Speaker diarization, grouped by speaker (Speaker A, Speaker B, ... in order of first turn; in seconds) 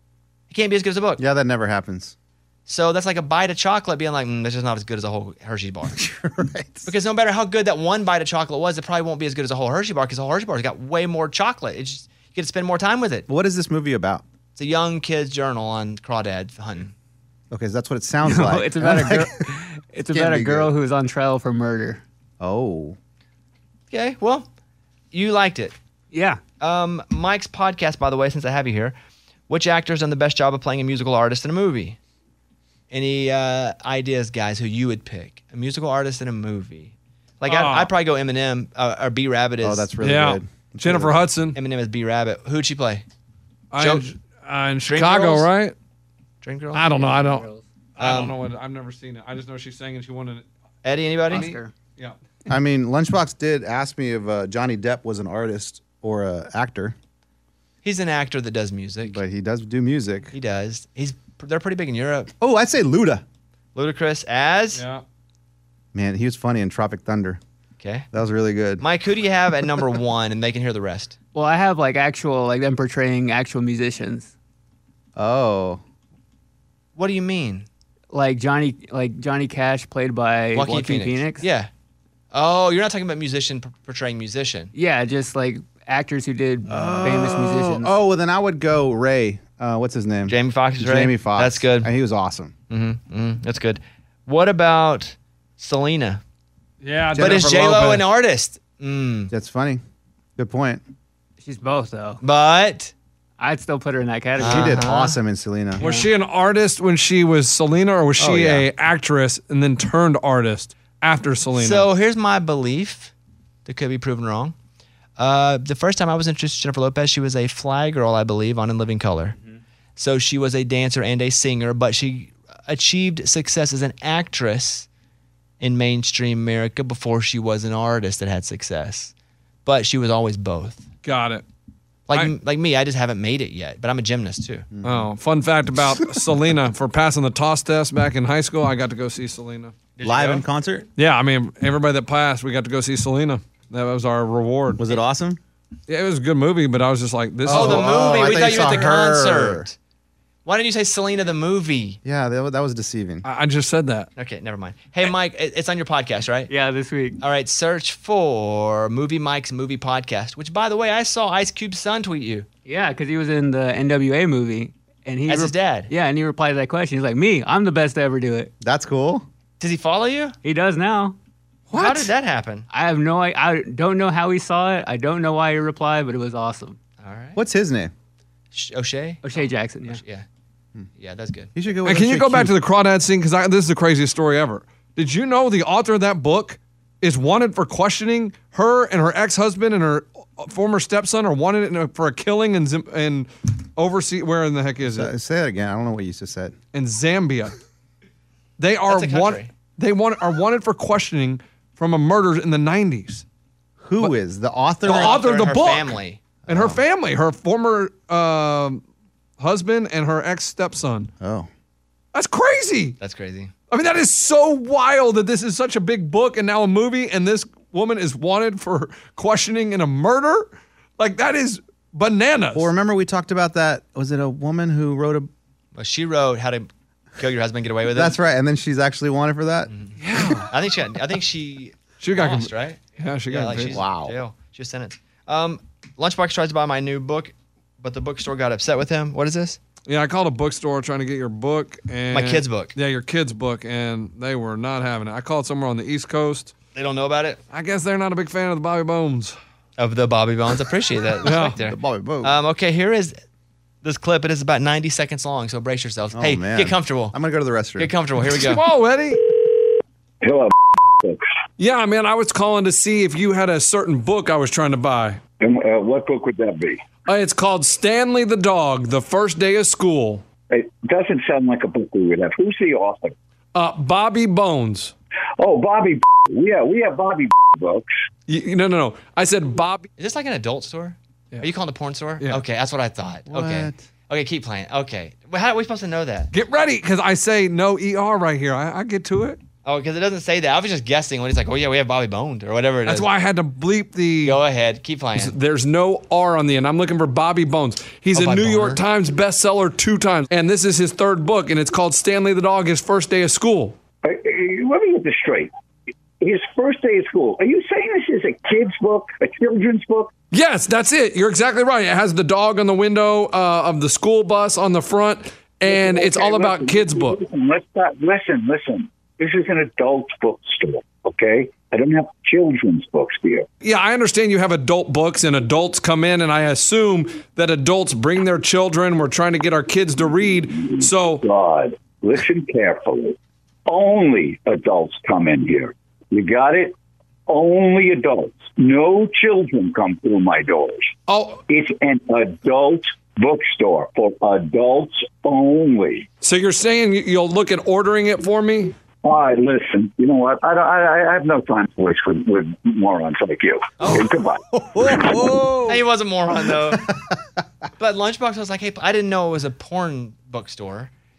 Speaker A: 0.5-1.2, 2.6-6.0, 6.8-13.3, 14.5-16.9, 23.9-24.5, 25.1-25.7, 26.6-28.9, 29.5-32.0, 32.9-39.9, 41.5-43.0, 43.8-44.0, 44.9-45.5, 46.4-46.9, 48.0-48.4, 50.8-51.5, 57.8-59.2, 60.3-62.3, 63.7-64.8, 67.8-68.1, 68.8-71.2, 77.0-77.7, 80.5-81.7, 82.3-84.7, 90.3-91.9, 92.7-96.2, 97.2-99.3, 102.2-102.9, 104.4-105.2, 111.5-113.1, 113.7-114.5, 115.2-119.3, 120.0-124.9, 125.6-129.1, 129.7-130.8, 132.1-134.7, 140.0-140.4, 147.5-149.7, 150.4-152.0, 154.2-156.5, 157.2-162.5, 165.2-165.9, 169.6-170.3, 171.7-172.7, 177.0-177.4, 178.5-180.2, 180.9-181.5, 198.9-199.5, 204.8-206.2, 213.0-213.5, 225.7-228.2, 229.7-239.6, 242.1-242.7, 246.7-247.4, 249.8-253.2, 253.8-257.1, 257.8-258.6, 280.0-286.3, 289.6-293.1, 294.2-295.3, 298.1-298.8, 353.8-354.1, 355.6-356.9, 357.8-360.9
Speaker B: 1.2-2.1, 5.9-6.9, 13.3-14.2, 17.5-19.4, 20.1-20.7, 22.4-23.0, 39.6-41.2, 52.5-57.0, 59.0-60.3, 62.4-63.2, 65.9-67.4, 68.1-68.8, 75.2-75.8, 86.7-92.5, 97.1-97.4, 99.3-99.8, 100.4-100.8, 104.4-105.8, 108.2-108.7, 134.7-135.1, 140.0-140.9, 144.8-145.4, 147.4-149.7, 152.0-153.2, 168.6-169.2, 177.3-177.9, 181.5-182.6, 194.8-196.5, 203.8-205.2, 206.5-206.8, 211.2-211.5, 222.5-225.3, 227.9-230.4, 233.7-234.2, 251.7-252.4, 256.1-257.9, 283.3-283.8, 354.5-355.8, 356.4-356.9
Speaker C: 18.2-22.0, 26.1-26.4, 47.0-47.6, 51.3-51.7, 71.3-74.3, 78.1-81.4, 84.7-88.0, 101.4-102.2, 103.4-105.0, 105.8-106.1, 156.5-157.2, 162.7-168.5, 170.4-171.2, 172.7-176.8, 179.2-180.0
Speaker D: 37.4-37.9, 40.0-41.5, 43.7-45.7, 46.7-50.4, 51.3-52.1, 64.7-65.0, 96.8-98.0, 105.8-111.9, 131.0-131.4, 134.8-139.7, 141.0-144.8, 145.9-148.3, 153.2-154.1, 171.7-172.1, 181.8-195.1, 196.7-197.5, 198.6-203.2, 204.8-205.9, 206.5-208.8, 209.4-211.1, 212.1-213.0, 213.7-222.7, 230.0-230.5, 232.0-233.8, 239.9-246.5, 247.5-249.3, 251.2-251.6, 258.3-259.2, 261.6-265.2, 267.1-270.2, 273.5-274.9, 278.3-279.9, 286.3-289.4, 292.9-294.4, 295.1-303.8, 310.3-317.2, 323.6-331.2, 341.1-341.4, 346.2-348.7
Speaker E: 260.2-261.2, 265.4-266.8, 270.5-273.1, 275.4-277.9, 304.0-305.5, 306.2-310.1, 315.6-323.4, 330.5-333.1, 333.7-336.7, 337.3-340.9, 341.5-346.1, 349.0-354.9